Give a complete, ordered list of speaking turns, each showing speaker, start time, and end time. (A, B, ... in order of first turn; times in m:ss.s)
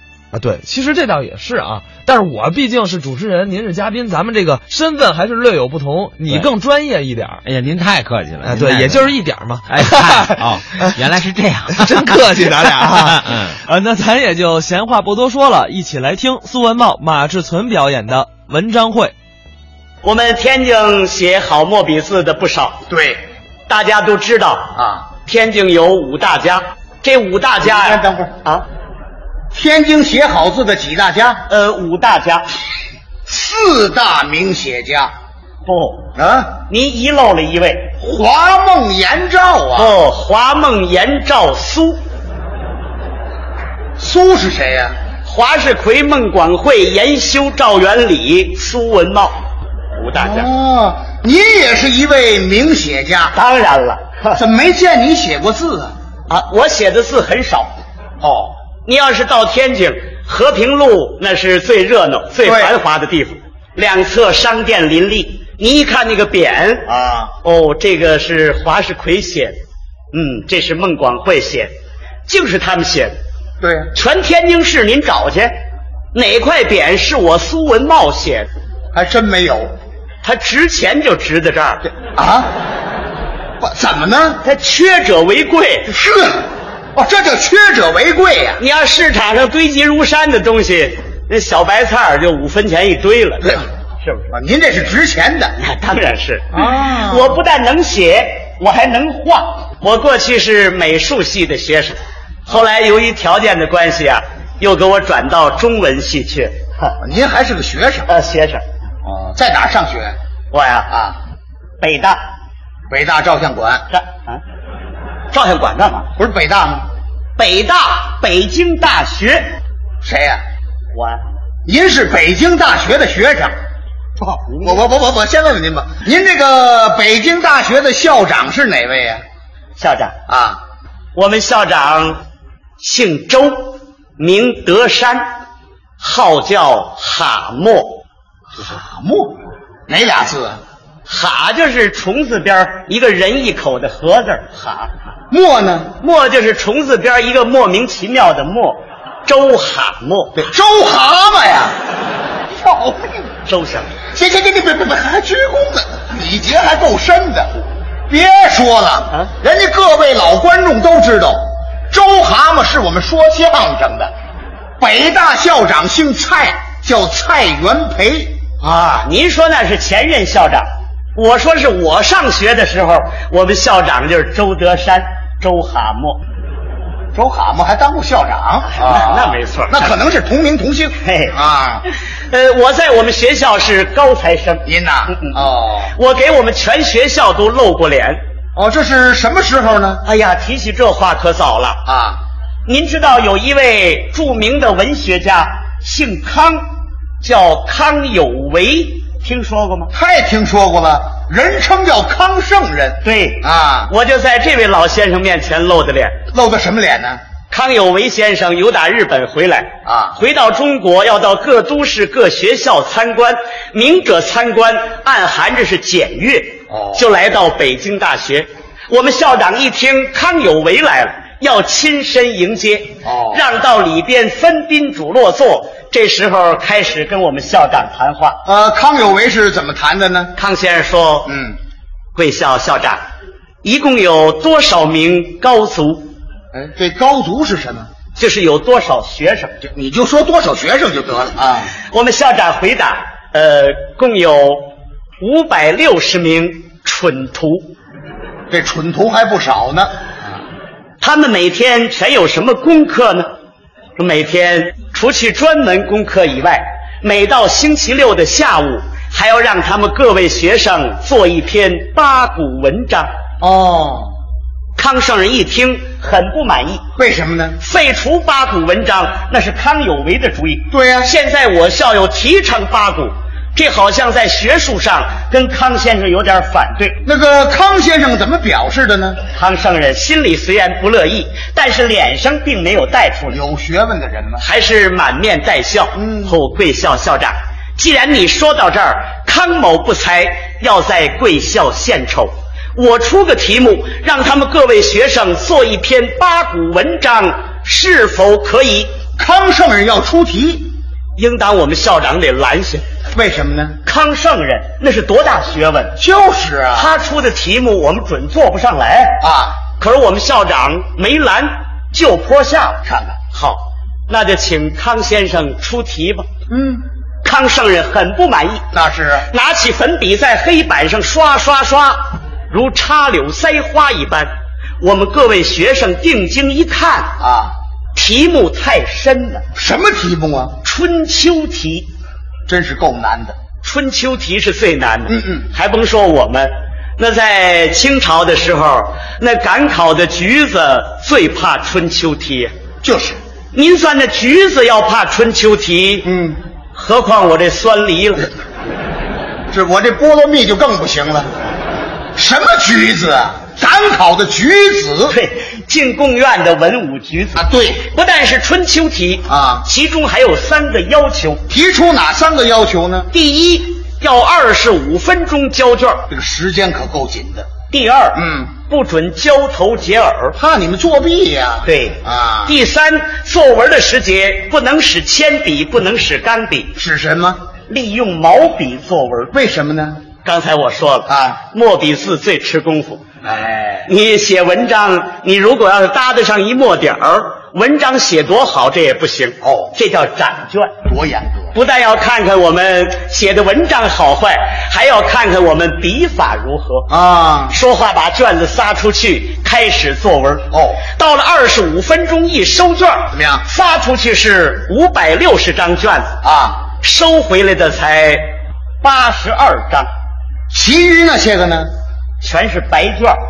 0:00.3-0:07.4 A
0:07.4-0:09.1 B
0:08.4-0:11.0 A
0:09.7-0:13.6 B
0:11.8-0:19.1 A
0:20.0-0:22.8 C
0:22.9-0:23.2 D
0:23.7-0:24.7 C
0:24.7-0:25.1 D
0:25.2-0:28.6 C
0:27.6-0:28.3 D
0:29.5-0:31.4 D
0:31.5-0:32.5 C
0:33.3-0:35.1 D
0:35.6-0:36.1 C
0:36.2-0:36.5 D
0:36.6-0:37.9 C
0:38.0-0:40.0 D
0:39.8-0:42.0 C
0:44.0-0:45.0 D
0:45.2-0:49.4 C
0:50.0-0:50.5 C
0:50.2-0:53.3 D
0:53.3-0:54.4 C
0:54.3-0:55.9 D
0:56.3-0:57.8 C
0:58.2-0:58.5 D
0:58.8-1:06.9 C
1:02.4-1:02.7 D
1:06.9-1:07.3 D
1:07.4-1:09.6 C
1:10.1-1:11.7 C
1:12.3-1:13.2 C
1:13.6-1:13.9 D
1:13.9-1:15.5 C
1:16.1-1:18.5 C
1:18.9-1:19.7 D
1:20.2-1:21.9 C
1:22.0-1:22.5 D
1:23.6-1:24.4 D
1:24.4-1:25.9 C
1:25.9-1:28.6 D
1:28.6-1:34.3 C
1:34.3-1:35.6 D
1:35.6-1:47.0 C
1:36.5-1:37.4 D
1:47.0-1:48.1 D
1:48.1-1:48.6 C
1:49.0-1:50.2 D
1:50.5-1:50.9 C
1:50.9-1:51.2 D
1:51.8-1:52.2 C
1:52.9-1:53.8 D
1:53.9-1:54.4 C
1:55.3-1:56.1 C
1:56.2-1:56.9 D
1:57.4-1:59.5 C
2:00.0-2:00.4 D
2:00.9-2:01.2 C
2:01.6-2:03.5 D
2:04.2-2:09.2 D
2:04.4-2:04.8 C
2:09.8-2:10.2 C
2:10.3-2:10.6 D
2:11.1-2:12.2 C
2:12.8-2:15.2 C
2:16.0-2:18.0 C
2:18.6-2:20.6 D
2:21.0-2:24.9 C
2:25.3-2:25.9 D
2:26.0-2:30.5 C
2:30.4-2:31.8 D
2:32.5-2:33.3 D
2:33.4-2:33.9 C
2:34.1-2:37.5 D
2:38.1-2:44.1 D
2:44.8-2:48.3 D
2:48.6-2:56.2 C
2:57.1-3:01.8 D
2:58.7-3:00.0 C
3:01.0-3:01.3 C
3:01.9-3:05.4 C
3:04.6-3:05.9 D
3:05.9-3:08.2 C
3:08.6-3:10.0 D
3:10.0-3:11.8 C
3:11.8-3:12.2 D
3:12.6-3:16.6 C
3:17.2-3:19.9 C
3:19.9-3:23.9 D
3:23.0-3:26.2 C
3:26.3-3:27.2 D
3:27.5-3:48.4 C
3:29.8-3:30.2 D
3:36.7-3:37.0 D
3:43.0-3:43.4 D
3:48.4-3:50.3 D
3:50.4-3:51.3 C
3:51.2-3:51.6 D
3:52.1-3:53.0 C
3:53.6-3:56.1 C
3:56.5-3:57.9 D
3:58.2-3:59.5 C
3:59.6-4:01.7 D
4:01.9-4:07.7 C
4:08.5-4:09.9 D
4:11.0-4:13.3 C
4:14.0-4:23.1 C
4:23.4-4:24.1 D
4:24.8-4:26.8 C
4:27.0-4:27.6 D
4:27.6-4:37.0 C
4:30.7-4:31.1 D
4:37.0-4:39.2 D
4:39.3-4:43.4 C
4:43.3-4:44.4 D
4:44.4-4:58.9 C
4:45.9-4:46.4 D
4:59.2-5:00.7 D
5:01.2-5:02.8 C
5:03.1-5:03.8 D
5:03.8-5:06.0 C
5:06.0-5:06.9 D
5:06.7-5:09.2 C
5:09.2-5:09.6 D
5:09.8-5:16.3 C
5:12.8-5:13.2 D
5:16.5-5:16.8 D
5:17.2-5:18.6 C
5:18.7-5:19.3 D
5:19.3-5:24.3 C
5:24.8-5:27.1 C
5:27.2-5:27.5 D
5:27.9-5:29.4 C
5:29.5-5:30.6 D
5:30.6-5:31.9 C
5:32.5-5:33.4 D
5:33.6-5:42.5 C
5:35.1-5:35.5 D
5:42.8-5:43.2 D
5:43.5-5:46.1 C
5:46.0-5:46.4 D
5:46.7-5:48.3 C
5:49.5-5:51.3 D
5:52.2-5:55.2 D
5:55.1-6:01.4 C
5:57.4-5:57.8 D
5:59.3-5:59.6 D
6:01.5-6:03.1 D
6:03.1-6:06.1 C
6:06.1-6:07.5 D
6:07.7-6:10.4 C
6:08.1-6:08.5 D
6:10.4-6:12.6 D
6:11.6-6:16.7 C
6:16.8-6:17.4 D
6:17.7-6:19.3 C
6:19.3-6:20.0 D
6:20.2-6:23.0 C
6:21.1-6:21.4 D
6:23.2-6:23.9 D
6:23.9-6:30.8 C
6:29.4-6:29.7 D
6:30.8-6:31.5 D
6:31.5-6:36.9 C
6:36.9-6:37.6 D
6:37.5-6:46.1 C
6:40.5-6:40.8 D
6:43.1-6:43.4 D
6:46.2-6:46.6 D
6:46.8-6:49.9 C
6:50.5-6:51.7 D
6:52.2-6:53.2 C